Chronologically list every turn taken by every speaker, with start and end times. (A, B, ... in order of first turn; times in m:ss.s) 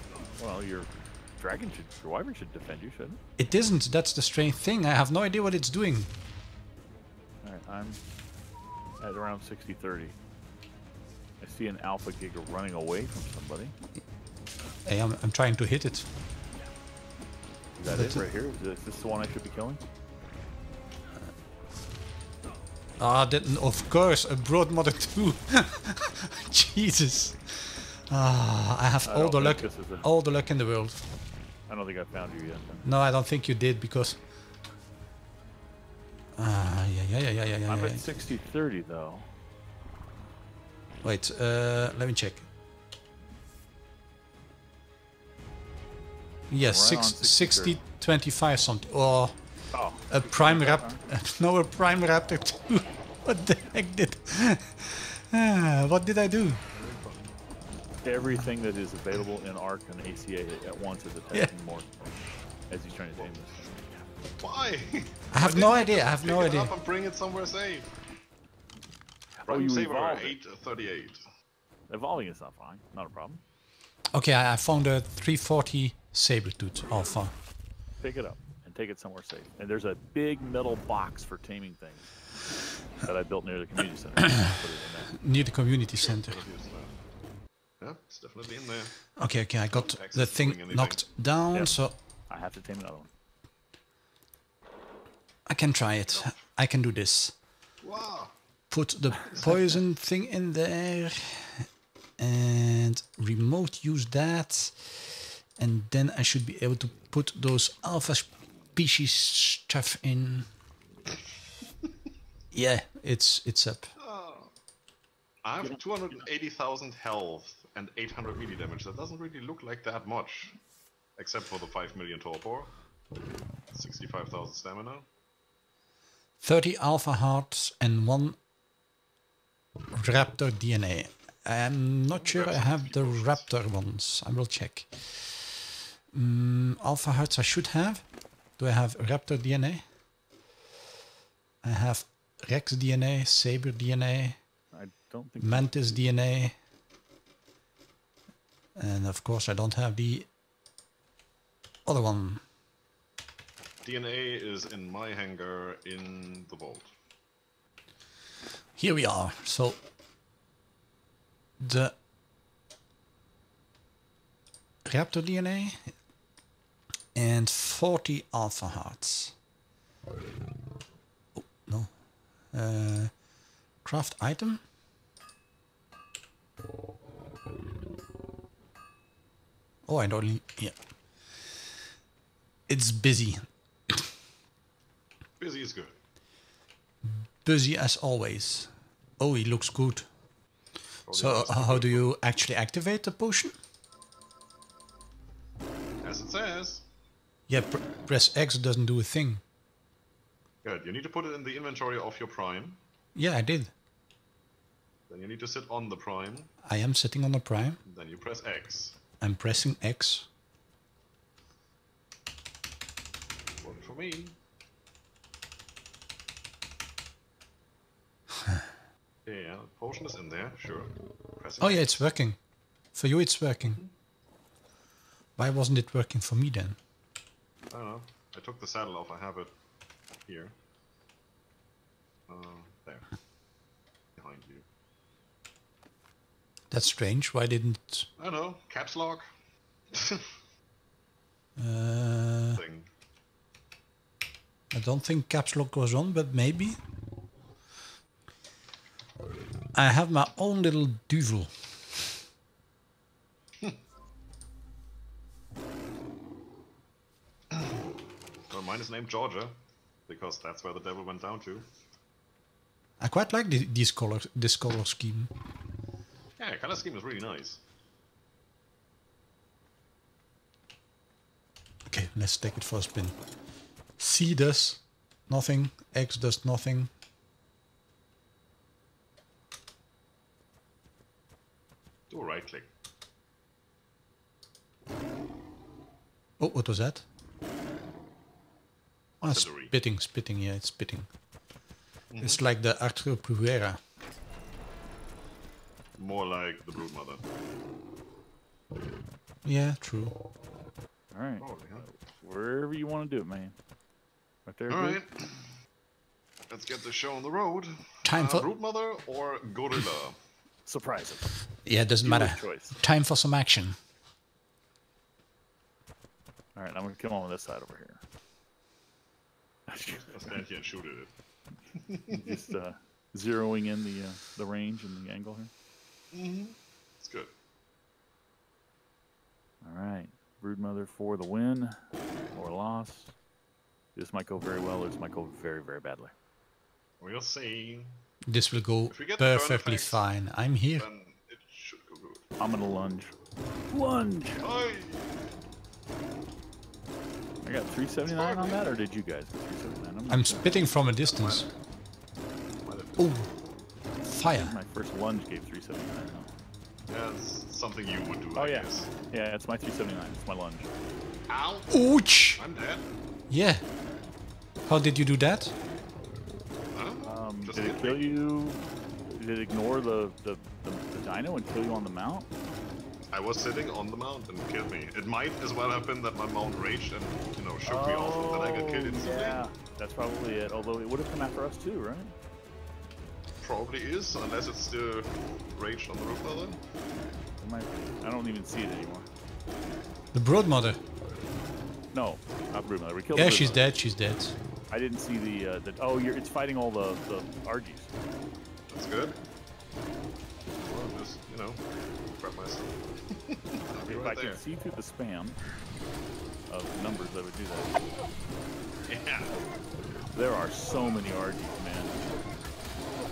0:00.4-0:03.2 A
0:03.4-0:06.1 B
0:07.4-0:08.0 A
0:09.0-0:10.2 A
0:11.4-0:13.8 A
0:14.9-0:16.1 B
0:17.8-0:19.8 A
0:17.9-0:18.2 B
0:23.0-0:31.1 B
0:29.0-0:30.1 A
0:31.7-0:32.9 A
0:32.8-0:34.2 B
0:36.4-0:38.0 B
0:37.7-0:39.3 A
0:41.0-0:42.5 B
0:46.5-0:49.4 B
0:46.6-0:47.8 A
0:49.7-0:51.0 A
0:50.1-0:56.6 B
0:56.7-0:57.3 C
0:58.0-1:02.0 A
1:02.7-1:04.1 A
1:04.4-1:07.9 C
1:05.3-1:06.7 B
1:09.4-1:10.4 A
1:09.5-1:11.2 C
1:11.9-1:13.4 A
1:14.1-1:17.3 B
1:18.0-1:22.1 A
1:23.0-1:25.2 A
1:25.1-1:26.4 B
1:25.9-1:26.9 C
1:27.8-1:29.0 C
1:29.2-1:32.0 B
1:29.7-1:31.0 C
1:32.3-1:33.1 A
1:35.5-1:37.4 B
1:37.8-1:38.3 C
1:38.7-1:41.7 B
1:42.2-1:50.5 B
1:52.5-1:53.9 B
1:54.0-1:54.5 C
1:55.4-2:00.6 C
2:01.2-2:02.7 C
2:03.7-2:05.0 C
2:06.4-2:08.4 B
2:10.0-2:15.6 B
2:12.1-2:13.5 C
2:16.1-2:18.0 B
2:18.6-2:19.8 B
2:21.6-2:24.4 B
2:24.7-2:26.0 A
2:25.4-2:26.6 B
2:28.8-2:30.3 B
2:31.9-2:32.4 B
2:33.8-2:36.9 C
2:38.8-2:39.8 B
2:41.6-2:42.0 B
2:44.9-2:45.9 B
2:47.2-2:49.4 B
2:51.4-2:51.9 B
2:52.5-2:53.1 B
2:53.8-2:54.6 B
2:59.9-3:00.8 B
3:02.7-3:04.0 B
3:05.4-3:05.9 C
3:07.0-3:10.1 B
3:11.1-3:12.1 C
3:11.1-3:13.5 B
3:16.0-3:16.8 C
3:17.5-3:19.4 B
3:20.6-3:22.8 C
3:23.2-3:23.7 B
3:25.1-3:26.5 C
3:26.6-3:27.8 B
3:27.8-3:29.0 C
3:29.2-3:30.3 B
3:33.6-3:34.4 C
3:39.3-3:42.0 C
3:41.6-3:42.4 B
3:42.9-3:43.8 B
3:45.4-3:46.8 B
3:47.7-3:49.5 C
3:50.3-3:50.5 C
3:52.3-3:53.1 C
3:54.2-3:54.6 C
3:56.7-3:58.1 B
3:58.2-3:59.2 C
3:59.9-4:00.2 C
4:01.6-4:02.6 B
4:02.6-4:02.9 C
4:04.7-4:06.8 B
4:09.7-4:11.5 B
4:18.5-4:19.5 C
4:20.1-4:21.7 C
4:23.0-4:25.3 B
4:26.4-4:27.6 C
4:31.9-4:33.2 B
4:34.0-4:36.9 B
4:42.1-4:42.7 C
4:46.4-4:47.0 B
4:49.2-4:51.1 B
4:49.2-4:49.7 C
4:52.1-4:52.4 C
4:52.2-4:53.8 B
4:56.0-4:57.2 C
4:59.4-5:00.2 B
5:01.1-5:03.6 A
5:01.4-5:01.9 C
5:04.5-5:05.0 A
5:04.7-5:05.4 C
5:06.5-5:10.2 C
5:08.0-5:08.5 B
5:10.7-5:11.4 A
5:11.6-5:13.8 B
5:12.0-5:12.8 A
5:16.6-5:18.0 A
5:19.7-5:20.1 A
5:20.1-5:21.1 C
5:21.7-5:22.4 C
5:22.1-5:25.5 A
5:26.1-5:27.3 C
5:29.6-5:31.8 A
5:32.3-5:33.1 A
5:34.0-5:36.1 A
5:37.0-5:37.9 C
5:38.3-5:40.9 B
5:38.9-5:40.1 C
5:40.8-5:42.2 C
5:42.4-5:43.1 A
5:43.7-5:44.5 A
5:44.4-5:45.3 C
5:47.4-5:50.6 A
5:48.0-5:48.7 C
5:50.1-5:51.5 B
5:51.1-5:51.5 C
5:52.6-5:53.3 C
5:53.0-5:53.3 B
5:54.0-5:54.6 B
5:54.3-5:56.3 A
5:56.9-5:58.9 C
5:58.4-6:00.7 A
6:01.3-6:02.9 C
6:01.7-6:02.4 B
6:03.3-6:03.6 B
6:04.7-6:05.5 B
6:06.7-6:08.1 C
6:07.0-6:12.3 A
6:13.1-6:19.4 C
6:17.6-6:22.1 A
6:23.4-6:26.6 C
6:27.4-6:29.1 A
6:30.1-6:30.8 B
6:31.9-6:33.7 A
6:33.1-6:34.4 B
6:34.7-6:37.9 A
6:38.7-6:39.2 C
6:40.6-6:44.4 C
6:43.8-6:45.4 A
6:46.5-6:47.7 A
6:48.9-6:49.3 C
6:50.1-6:52.0 A
6:50.7-6:51.0 C